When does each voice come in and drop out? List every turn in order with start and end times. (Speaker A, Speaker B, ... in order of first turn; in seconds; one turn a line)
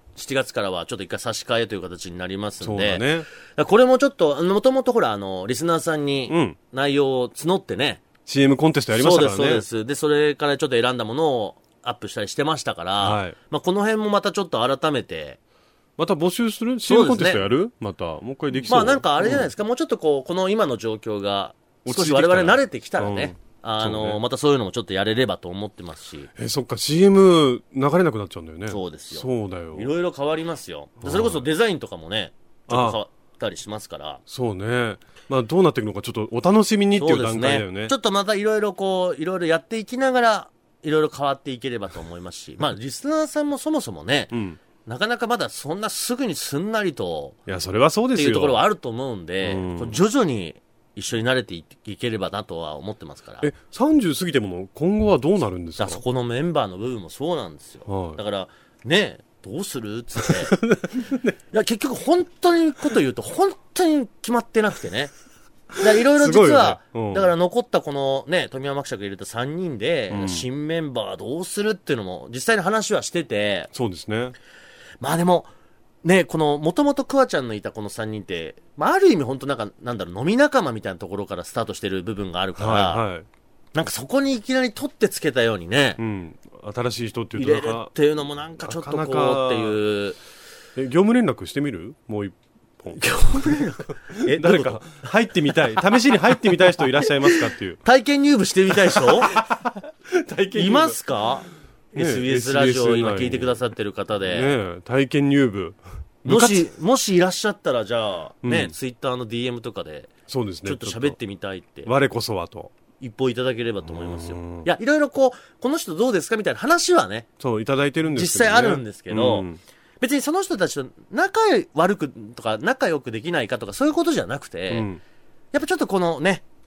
Speaker A: 0.1-8.0
Speaker B: 2.6-3.3
Speaker B: 6.3-6.6
Speaker B: 8.2-9.7
Speaker A: 8.9-15.4
Speaker B: 13.0-13.3
Speaker B: 16.0-19.5
Speaker A: 16.9-17.5
Speaker A: 18.7-26.3
Speaker B: 21.8-24.2
Speaker B: 26.4-29.9
Speaker A: 28.7-34.2
Speaker B: 31.0-31.5
Speaker B: 32.7-33.0
Speaker B: 34.3-37.9
Speaker A: 37.0-47.4
Speaker B: 44.3-44.6
Speaker B: 47.5-48.6
Speaker A: 48.1-53.5
Speaker B: 49.4-50.0
Speaker B: 53.4-56.0
Speaker A: 55.8-60.6
Speaker B: 57.9-58.2
Speaker B: 60.5-61.3
Speaker A: 61.5-65.1
Speaker A: 65.8-73.7
Speaker B: 66.0-67.3
Speaker B: 70.1-70.4
Speaker B: 73.7-74.3
Speaker A: 75.0-75.5
Speaker A: 76.0-83.0
Speaker B: 82.5-83.3
Speaker A: 83.7-86.0
Speaker B: 86.0-87.9
Speaker A: 87.3-90.2
Speaker B: 88.6-89.8
Speaker B: 90.8-93.0
Speaker A: 92.9-95.6
Speaker B: 94.1-97.8
Speaker A: 97.2-99.4
Speaker B: 98.9-101.0
Speaker A: 100.5-104.5
Speaker B: 101.9-103.6
Speaker B: 104.3-106.7
Speaker A: 106.2-111.9
Speaker B: 108.4-108.7
Speaker B: 110.3-111.2
Speaker B: 111.8-112.7
Speaker A: 113.0-117.3
Speaker B: 113.8-114.7
Speaker B: 117.4-119.6
Speaker A: 118.1-119.5
Speaker A: 120.0-124.9
Speaker B: 124.7-125.0
Speaker A: 125.5-126.4